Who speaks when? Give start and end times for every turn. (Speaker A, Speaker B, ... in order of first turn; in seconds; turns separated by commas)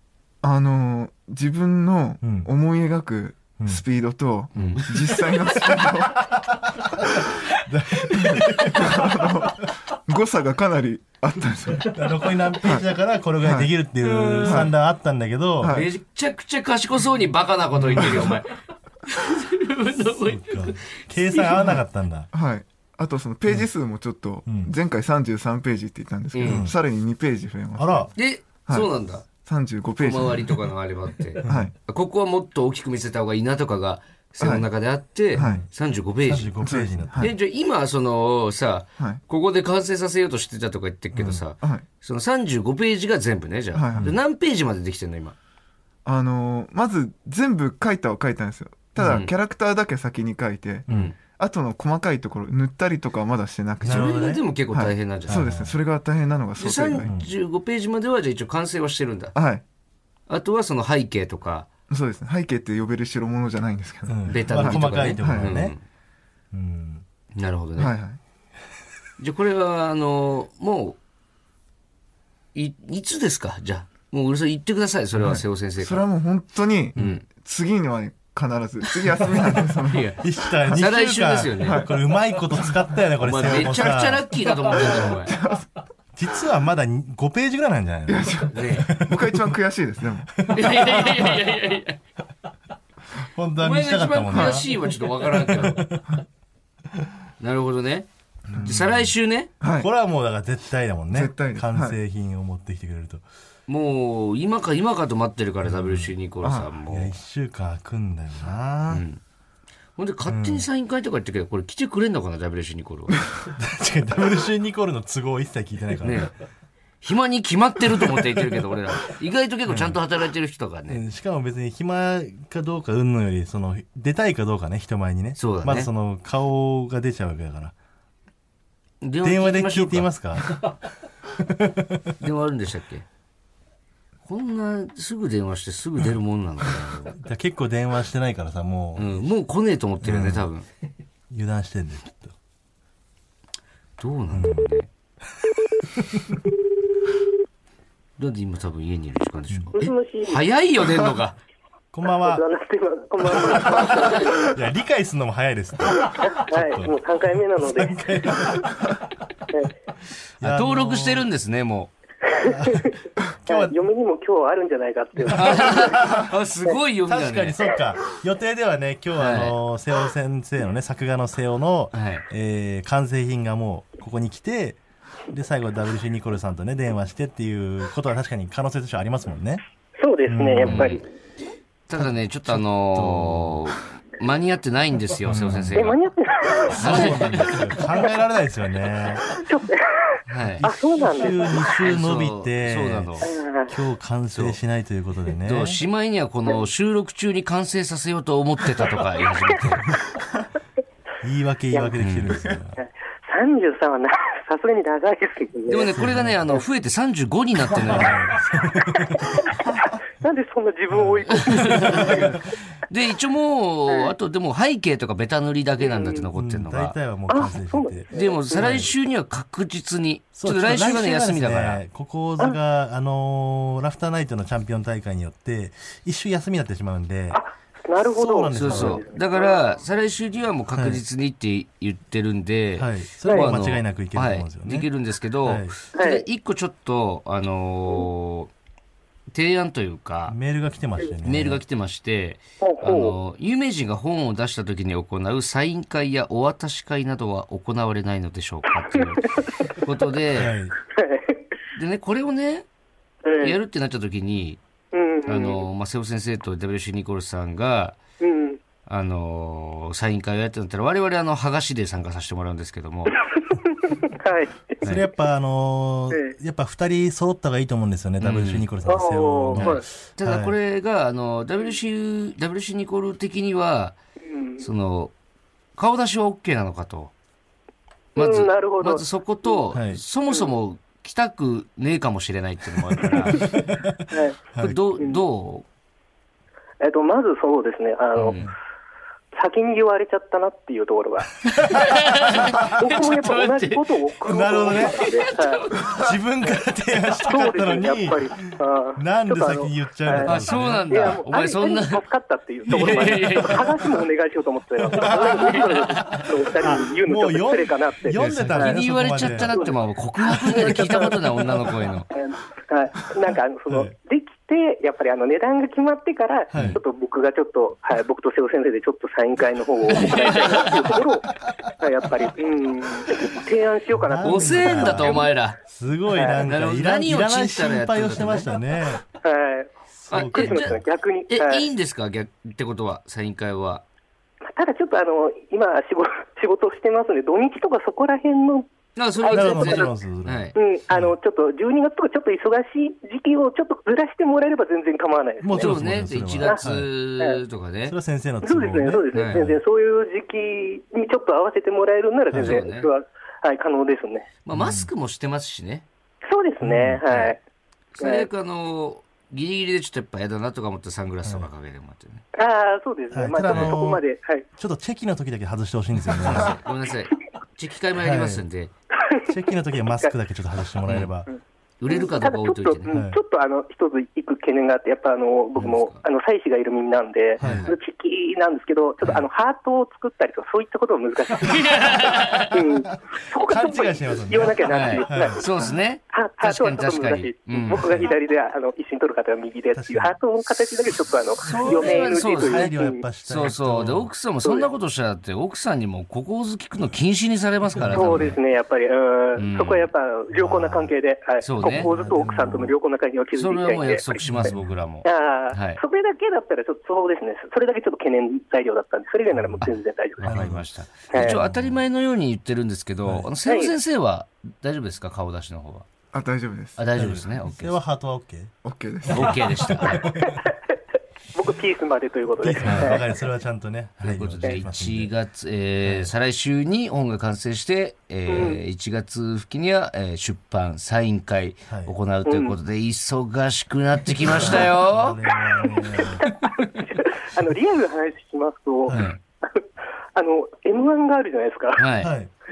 Speaker A: 0.4-6.3, Speaker B: 2.2-2.5, Speaker C: 4.5-5.0, Speaker B: 6.3-9.6, Speaker A: 8.7-12.0, Speaker B: 11.8-15.7, Speaker A: 12.6-12.8, Speaker A: 13.4-13.7, Speaker C: 14.0-14.6, Speaker A: 14.4-14.7, Speaker A: 15.6-15.9, Speaker C: 15.6-21.8, Speaker B: 17.8-18.4, Speaker B: 20.2-22.3, Speaker A: 22.3-28.1, Speaker B: 24.4-24.7, Speaker C: 26.3-26.7, Speaker B: 26.4-26.7, Speaker B: 27.8-28.1, Speaker C: 28.1-29.2, Speaker A: 29.4-30.7, Speaker C: 30.0-45.4, Speaker A: 31.4-31.7, Speaker B: 31.4-31.7, Speaker A: 34.4-34.6, Speaker A: 35.4-35.6, Speaker B: 35.4-35.6, Speaker B: 36.2-37.3, Speaker A: 36.6-37.3, Speaker B: 41.1-41.4, Speaker A: 43.7-44.1, Speaker A: 46.0-57.1, Speaker C: 49.0-49.3, Speaker C: 50.9-51.1, Speaker B: 53.8-54.4, Speaker C: 53.8-55.4, Speaker B: 55.3-55.7, Speaker C: 56.6-59.3, Speaker B: 57.0-57.3, Speaker A: 59.3-59.6, Speaker C: 60.3-61.7, Speaker A: 61.9-65.5, Speaker B: 64.1-65.8, Speaker C: 64.3-65.8, Speaker B: 66.5-67.0, Speaker C: 67.3-67.9, Speaker A: 67.8-68.2, Speaker C: 69.2-71.0, Speaker C: 72.5-76.0, Speaker A: 75.2-80.1, Speaker C: 77.0-77.2, Speaker B: 79.5-85.1, Speaker C: 79.8-81.8, Speaker C: 83.2-85.3, Speaker A: 84.7-85.7, Speaker B: 86.1-89.4, Speaker A: 88.1-90.3, Speaker C: 88.5-88.9, Speaker B: 90.4-91.5, Speaker C: 90.5-92.0, Speaker B: 93.2-96.2, Speaker C: 93.6-95.8, Speaker A: 94.3-94.6, Speaker C: 97.4-99.5, Speaker B: 98.5-99.1, Speaker A: 99.6-99.9, Speaker B: 99.7-103.2, Speaker A: 101.1-102.0, Speaker C: 103.7-107.1, Speaker B: 105.6-106.1, Speaker B: 106.8-109.0, Speaker C: 108.9-109.2, Speaker C: 110.0-113.2, Speaker B: 110.2-110.7, Speaker B: 113.4-116.3, Speaker C: 116.0-116.3, Speaker C: 117.0-121.0, Speaker B: 118.0-118.2, Speaker B: 119.7-120.0, Speaker B: 120.9-127.7, Speaker C: 125.3-125.9, Speaker C: 129.0-130.1, Speaker B: 129.2-130.7, Speaker B: 131.3-132.1, Speaker C: 132.2-133.1, Speaker C: 134.2-137.2, Speaker B: 137.1-139.2, Speaker C: 139.0-140.7, Speaker B: 140.0-140.5, Speaker B: 141.3-142.3, Speaker C: 144.0-144.9, Speaker B: 144.3-144.7, Speaker B: 145.9-146.4, Speaker C: 148.2-151.4, Speaker D: 149.7-150.4, Speaker B: 151.9-152.4, Speaker D: 152.1-154.6, Speaker B: 153.4-158.9, Speaker D: 156.0-158.0, Speaker B: 160.4-161.3, Speaker C: 160.4-161.9, Speaker B: 162.4-163.8, Speaker D: 162.4-166.0, Speaker C: 165.3-167.6, Speaker B: 165.3-166.3, Speaker B: 167.1-179.6, Speaker C: 169.2-169.6, Speaker C: 171.9-172.2, Speaker D: 180.0-181.0, Speaker B: 180.2-181.0, Speaker C: 180.7-181.0, Speaker C: 181.9-186.0, Speaker B: 182.0-183.6, Speaker B: 185.2-186.0, Speaker D: 185.7-187.2, Speaker B: 186.7-189.3, Speaker C: 186.7-187.7, Speaker D: 189.3-191.7, Speaker C: 190.3-190.7, Speaker B: 190.4-195.8, Speaker C: 191.8-193.3, Speaker D: 193.2-193.7, Speaker C: 195.4-199.9, Speaker B: 201.2-202.8, Speaker D: 201.7-202.0, Speaker C: 202.0-202.3, Speaker D: 202.8-205.9, Speaker C: 205.7-208.2, Speaker B: 205.9-206.4, Speaker B: 207.9-209.4, Speaker D: 210.2-212.4, Speaker B: 210.9-212.4, Speaker C: 211.3-212.3, Speaker C: 212.9-217.0, Speaker D: 215.8-216.2, Speaker B: 216.3-218.9, Speaker D: 217.3-218.9, Speaker C: 218.1-221.8, Speaker B: 220.3-227.4, Speaker D: 227.3-229.6, Speaker B: 228.0-229.0, Speaker C: 228.5-238.5, Speaker B: 230.7-231.0, Speaker B: 232.8-234.9, Speaker D: 233.2-233.5, Speaker B: 235.4-235.8, Speaker D: 235.9-236.2, Speaker C: 239.3-240.3, Speaker B: 240.3-241.6, Speaker C: 241.2-250.6, Speaker D: 242.6-243.1, Speaker B: 250.3-250.8, Speaker D: 250.9-251.4, Speaker C: 251.7-252.7, Speaker D: 253.2-253.6, Speaker C: 253.4-254.6, Speaker D: 254.9-255.6, Speaker C: 255.2-258.0, Speaker D: 258.2-258.6, Speaker C: 258.9-263.2, Speaker D: 263.6-264.8, Speaker B: 264.8-270.6, Speaker C: 268.2-268.7, Speaker D: 268.8-269.8, Speaker C: 269.5-273.9, Speaker D: 274.3-274.6, Speaker C: 274.6-275.1, Speaker C: 275.8-277.1, Speaker D: 278.1-279.6, Speaker C: 278.1-283.5, Speaker B: 279.7-280.0, Speaker B: 283.1-284.8, Speaker D: 284.1-284.4, Speaker C: 284.6-285.6, Speaker D: 286.8-288.5, Speaker C: 288.1-288.5, Speaker D: 289.3-291.4, Speaker B: 291.6-293.1, Speaker C: 291.6-293.8, Speaker D: 292.6-295.6, Speaker B: 294.2-295.0, Speaker C: 294.6-296.0, Speaker B: 295.9-301.2, Speaker D: 297.2-308.7, Speaker C: 300.2-302.0, Speaker C: 302.7-303.7, Speaker B: 304.8-305.7, Speaker C: 305.0-306.2, Speaker B: 306.6-309.6, Speaker C: 308.1-312.1, Speaker D: 309.5-309.8, Speaker D: 310.4-311.1, Speaker B: 310.5-311.0, Speaker D: 312.1-325.3, Speaker B: 313.7-313.9, Speaker C: 316.5-316.8, Speaker B: 316.5-316.8, Speaker C: 319.9-320.9, Speaker B: 323.9-329.0, Speaker C: 324.2-325.6, Speaker D: 326.1-326.4, Speaker C: 326.4-328.5, Speaker D: 329.2-331.7, Speaker B: 330.0-330.8, Speaker C: 330.1-333.8, Speaker D: 334.5-338.6, Speaker C: 338.9-340.5, Speaker D: 339.2-339.9, Speaker B: 339.3-341.1, Speaker D: 340.6-345.9, Speaker B: 345.4-346.9, Speaker C: 345.6-347.9, Speaker B: 347.9-349.6, Speaker D: 348.4-354.3, Speaker C: 349.1-349.4, Speaker B: 352.3-352.6, Speaker C: 352.4-352.9, Speaker C: 354.4-355.9, Speaker B: 354.5-354.9, Speaker D: 356.2-357.4, Speaker B: 356.6-357.0, Speaker C: 357.1-357.4, Speaker C: 358.0-362.2, Speaker D: 358.0-358.3, Speaker D: 362.3-364.4, Speaker B: 363.1-364.0, Speaker B: 364.6-366.5, Speaker C: 366.2-368.7, Speaker B: 367.9-368.4, Speaker B: 369.3-371.3, Speaker C: 371.8-372.9, Speaker D: 371.9-393.0, Speaker B: 372.9-373.2, Speaker C: 375.6-376.0, Speaker C: 377.4-377.8, Speaker B: 377.4-377.7, Speaker C: 381.4-382.6, Speaker B: 383.4-385.7, Speaker C: 384.7-388.1, Speaker B: 387.7-388.1, Speaker B: 389.7-390.2, Speaker C: 391.4-392.7, Speaker B: 391.5-394.1, Speaker C: 393.2-398.4, Speaker D: 394.4-394.7, Speaker B: 397.8-398.3, Speaker D: 397.9-404.5, Speaker C: 399.4-399.9, Speaker B: 400.3-400.9, Speaker C: 401.4-401.9, Speaker B: 401.6-402.7, Speaker C: 403.3-405.8, Speaker B: 404.2-404.7, Speaker D: 405.0-410.3, Speaker B: 409.3-409.7, Speaker C: 410.2-415.9, Speaker B: 410.2-411.8, Speaker D: 411.1-411.4, Speaker D: 413.4-413.7, Speaker A: 416.1-416.8, Speaker C: 416.8-417.8, Speaker B: 416.9-418.5, Speaker A: 418.6-419.5, Speaker C: 419.1-420.1, Speaker B: 419.1-420.4, Speaker D: 420.0-420.5, Speaker D: 421.3-423.1, Speaker B: 422.4-425.1, Speaker C: 424.0-435.2, Speaker B: 425.8-426.1, Speaker D: 428.3-428.6, Speaker B: 431.7-431.9, Speaker D: 432.2-432.5, Speaker B: 434.3-436.2, Speaker D: 435.7-439.6, Speaker C: 438.9-439.2, Speaker D: 440.1-441.8, Speaker C: 441.8-442.1, Speaker B: 442.0-442.3